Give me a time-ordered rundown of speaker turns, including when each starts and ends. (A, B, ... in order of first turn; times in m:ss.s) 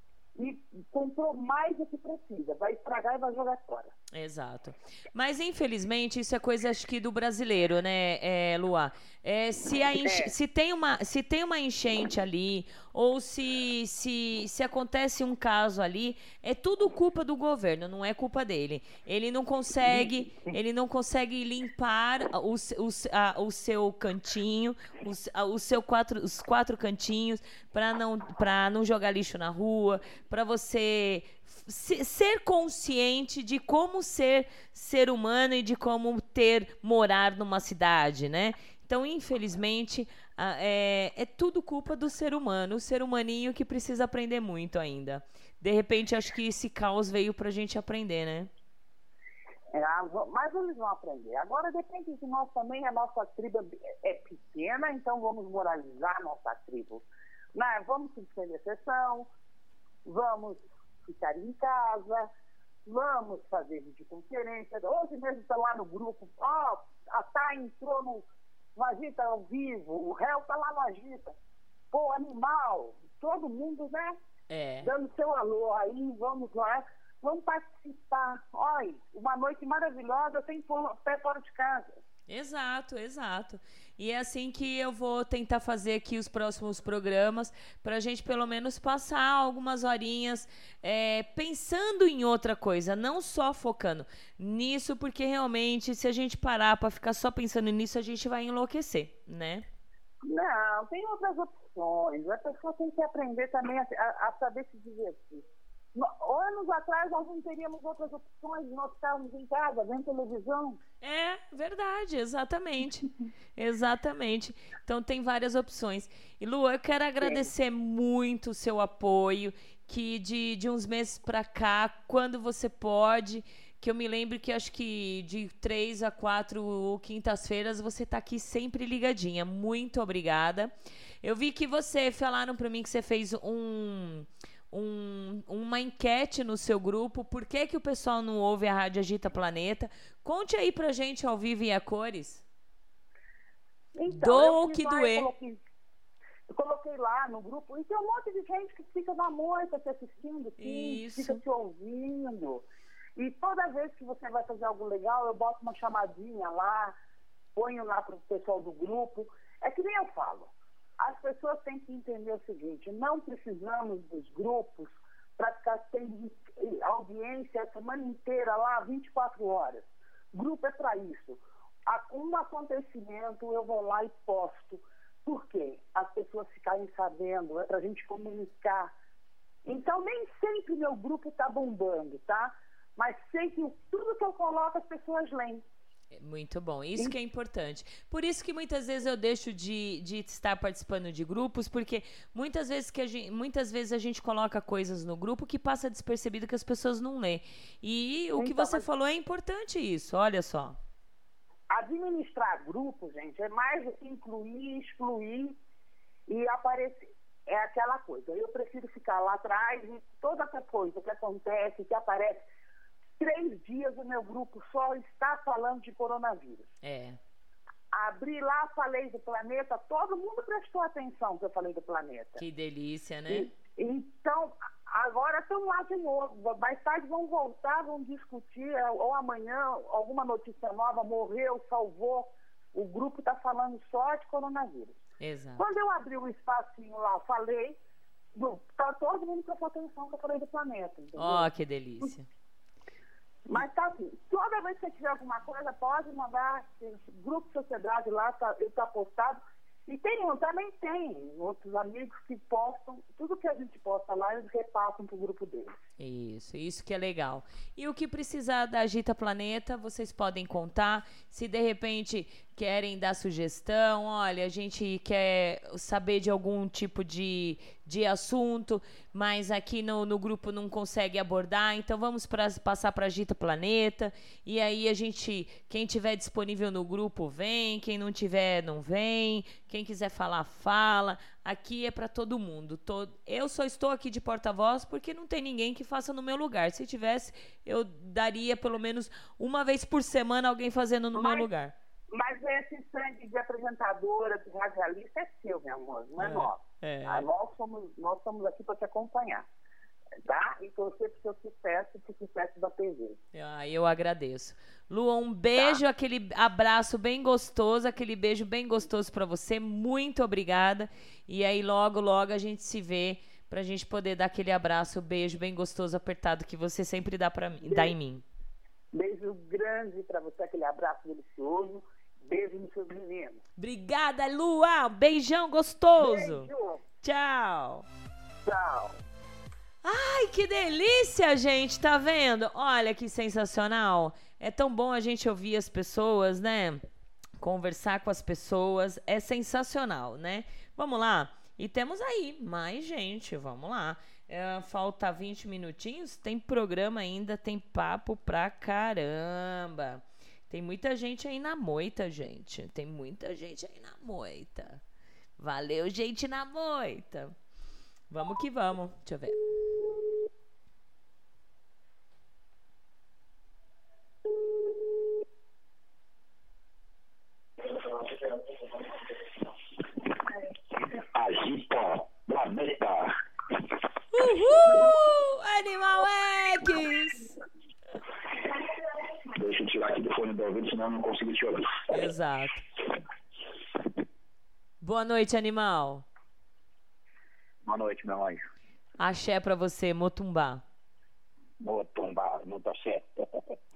0:00.4-0:03.9 A
0:04.1-0:48.5 B
0:09.9-0:10.3 A
0:49.7-0:59.3 A
1:00.0-1:02.3 A
1:02.8-1:08.2 A
1:08.8-1:11.3 A
1:11.9-1:14.2 A
1:14.5-1:14.9 B
1:14.8-1:22.0 A
1:22.3-1:39.6 B
1:40.2-1:50.8 A
1:51.0-2:22.4 B
1:57.2-1:57.5 A
2:23.9-2:25.6 A
2:24.1-2:25.3 B
2:26.5-2:32.6 A
2:30.6-2:31.4 B
2:33.2-2:36.9 A
2:37.6-2:58.9 A
2:59.6-3:05.6 A
3:06.1-3:20.8 B
3:18.4-3:18.8 A
3:21.7-3:25.6 A
3:26.3-3:32.4 A
3:33.2-3:36.7 A
3:36.8-3:37.2 B
3:37.9-3:42.4 A
3:42.4-3:43.5 B
3:43.3-3:55.0 A
3:55.2-3:55.7 B
3:55.6-3:57.8 A
3:58.3-4:01.5 A
4:01.2-4:02.3 B
4:03.5-4:15.8 A
4:16.0-4:51.7 B
4:51.1-4:51.5 A
4:52.1-4:59.4 A
4:56.2-4:57.3 B
5:00.2-5:03.2 A
5:03.3-5:18.2 B
5:05.6-5:05.8 A
5:17.6-5:17.9 A
5:18.9-5:23.4 A
5:23.6-5:27.8 B
5:25.9-5:26.8 A
5:28.4-5:29.0 A
5:29.8-5:36.8 B
5:37.4-5:54.8 B
5:55.4-5:57.3 B
5:58.1-5:59.4 B
6:10.8-6:13.1 C
6:14.1-6:17.3 B
6:19.3-6:22.0 C
6:21.9-6:22.6 B
6:24.8-6:26.0 B
6:27.6-6:28.5 C
6:29.0-6:30.6 B
6:31.6-6:33.5 C